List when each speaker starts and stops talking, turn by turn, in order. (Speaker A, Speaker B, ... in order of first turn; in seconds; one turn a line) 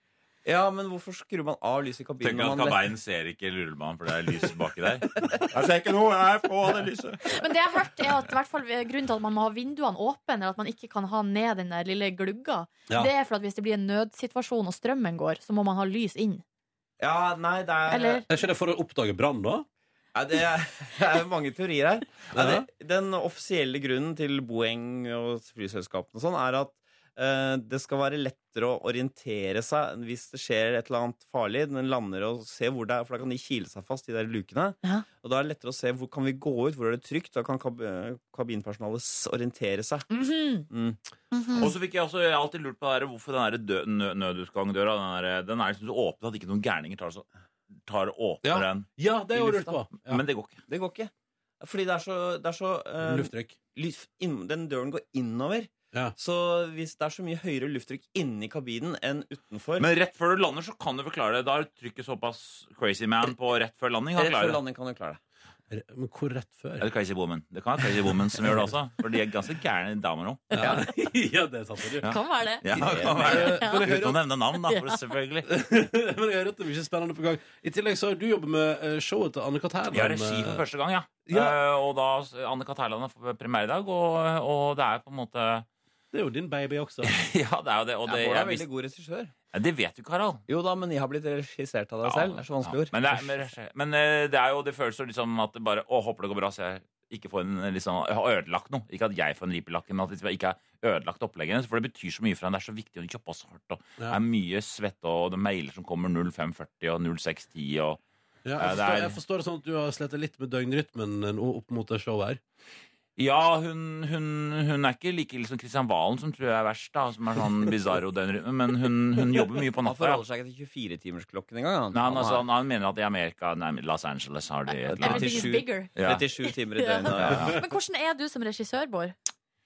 Speaker A: 0.4-2.8
Speaker B: 2.2-7.2
Speaker A: 5.5-6.9
Speaker C: 7.3-16.4
Speaker A: 17.0-18.2
Speaker C: 17.9-18.2
Speaker D: 18.3-19.7
Speaker A: 20.1-40.1
Speaker D: 22.3-22.7
Speaker C: 40.1-40.7
Speaker A: 40.7-41.0
Speaker C: 41.3-41.7
Speaker B: 41.5-47.2
Speaker B: 47.9-50.6
Speaker D: 48.4-50.2
Speaker A: 50.7-59.9
Speaker D: 53.0-53.6
Speaker B: 59.8-64.6
Speaker A: 64.2-65.2
Speaker D: 65.7-66.9
Speaker B: 66.8-70.7
Speaker D: 70.5-72.1
Speaker C: 72.0-72.7
Speaker B: 72.0-75.5
Speaker D: 72.7-74.2
Speaker A: 72.8-73.2
Speaker C: 73.2-73.9
Speaker C: 74.6-75.0
Speaker D: 75.5-80.6
Speaker B: 79.9-85.7
Speaker D: 81.2-81.6
Speaker D: 86.1-87.1
Speaker B: 87.0-88.7
Speaker A: 88.0-89.3
Speaker B: 89.5-90.4
Speaker A: 90.5-93.4
Speaker B: 92.0-108.0
Speaker D: 108.4-112.4
Speaker B: 108.6-109.2
Speaker B: 113.2-120.2
Speaker A: 119.8-122.4
Speaker B: 121.9-126.3
Speaker C: 124.7-125.9
Speaker A: 124.9-127.5
Speaker C: 126.5-129.2
Speaker B: 127.1-127.6